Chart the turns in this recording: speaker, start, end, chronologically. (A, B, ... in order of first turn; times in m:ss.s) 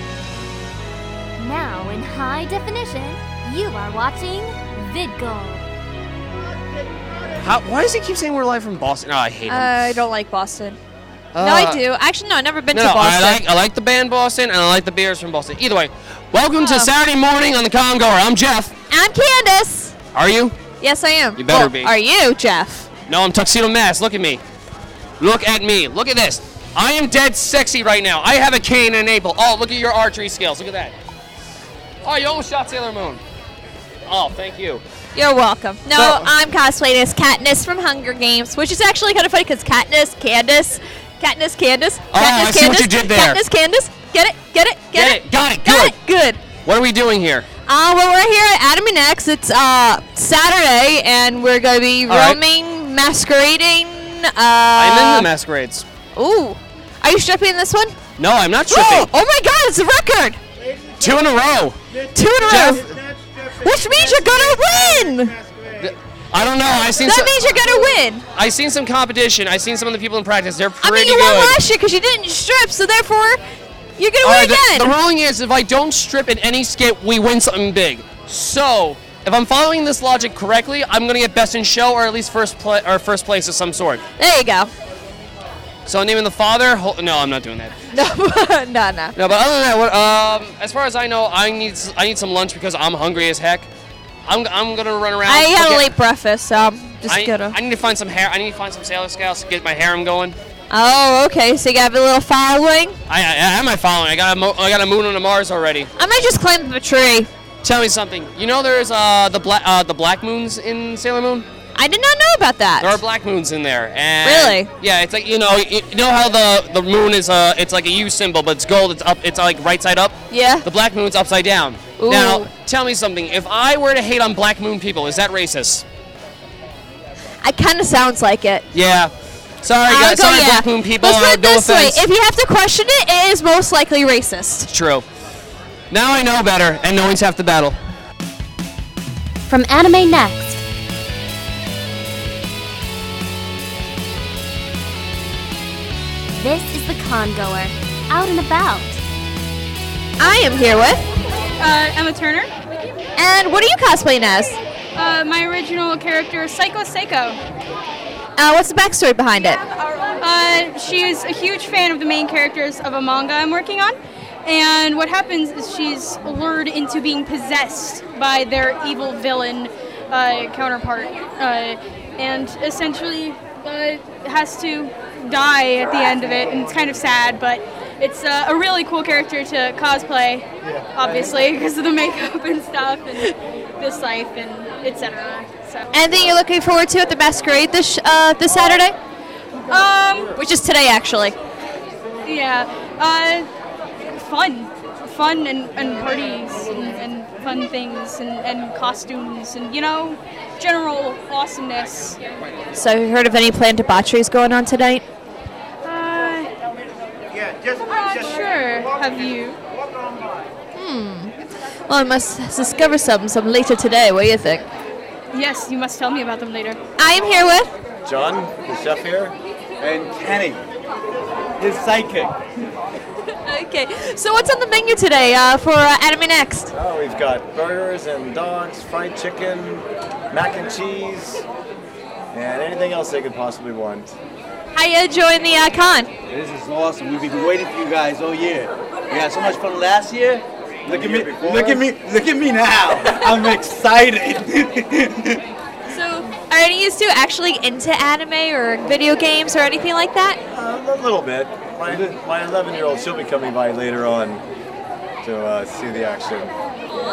0:01.4-0:05.6 A
0:07.4-0:10.0 B
0:09.5-0:10.8 C
0:11.3-0:11.8 B
0:11.4-0:13.4 C
0:12.7-0:18.7 B
0:16.6-0:16.9 C
0:18.9-0:19.9 C
0:20.1-0:20.6 B
0:20.8-0:22.9 C
0:21.4-0:21.9 B
0:23.1-0:24.4 B
0:25.2-0:30.9 B
0:32.0-0:33.2 B
0:34.1-0:34.8 B
0:35.2-0:46.4 C
0:35.9-0:36.3 B
0:42.1-0:43.4 B
0:44.9-0:46.0 B
0:46.6-0:47.5 B
0:47.7-0:55.3 C
0:52.1-0:52.4 B
0:54.7-0:55.8 B
0:56.2-0:58.0 C
0:58.2-0:59.1 B
0:58.7-1:00.4 C
1:01.0-1:01.8 B
1:02.1-1:02.9 C
1:02.4-1:03.0 B
1:03.5-1:05.4 C
1:05.8-1:11.6 B
1:07.0-1:08.2 C
1:10.8-1:13.4 C
1:14.0-1:14.9 C
1:14.2-1:24.0 B
1:24.2-1:24.7 C
1:25.9-1:27.7 B
1:27.9-1:29.2 C
1:29.2-1:33.7 B
1:34.3-1:35.9 B
1:35.2-1:37.6 C
1:37.1-1:40.4 B
1:40.7-1:43.0 C
1:43.1-1:45.9 B
1:46.0-1:47.3 C
1:47.6-1:51.5 B
1:51.8-1:53.0 C
1:52.8-2:05.8 B
1:54.2-1:54.7 C
2:00.3-2:00.6 C
2:02.0-2:02.5 C
2:07.4-2:08.7 C
2:08.7-2:12.1 B
2:09.9-2:14.7 C
2:14.7-2:15.0 B
2:15.9-2:17.8 B
2:19.5-2:20.6 A
2:26.3-2:29.0 A
2:30.2-2:31.0 C
2:31.6-2:32.5 D
2:33.2-2:34.6 C
2:35.0-2:37.4 D
2:38.4-2:39.6 C
2:40.2-2:44.0 D
2:44.5-3:05.9 D
3:05.9-3:09.0 C
3:09.7-3:10.4 D
3:10.4-3:11.4 C
3:12.2-3:13.5 D
3:14.1-3:22.2 D
3:22.8-3:25.0 C
3:25.8-3:26.5 D
3:27.7-3:29.6 D
3:30.8-3:31.3 C
3:31.9-3:34.7 C
3:35.3-3:36.8 D
3:37.0-3:37.7 C
3:38.0-3:39.3 E
3:39.8-3:40.6 F
3:41.6-3:42.4 F
3:43.5-3:46.7 C
3:46.7-3:51.4 E
3:52.3-3:54.2 E
3:54.7-3:56.1 C
3:56.3-4:05.4 F
4:00.9-4:01.9 E
4:05.9-4:10.4 C
4:10.5-4:14.4 E
4:11.9-4:12.2 F
4:15.2-4:16.5 E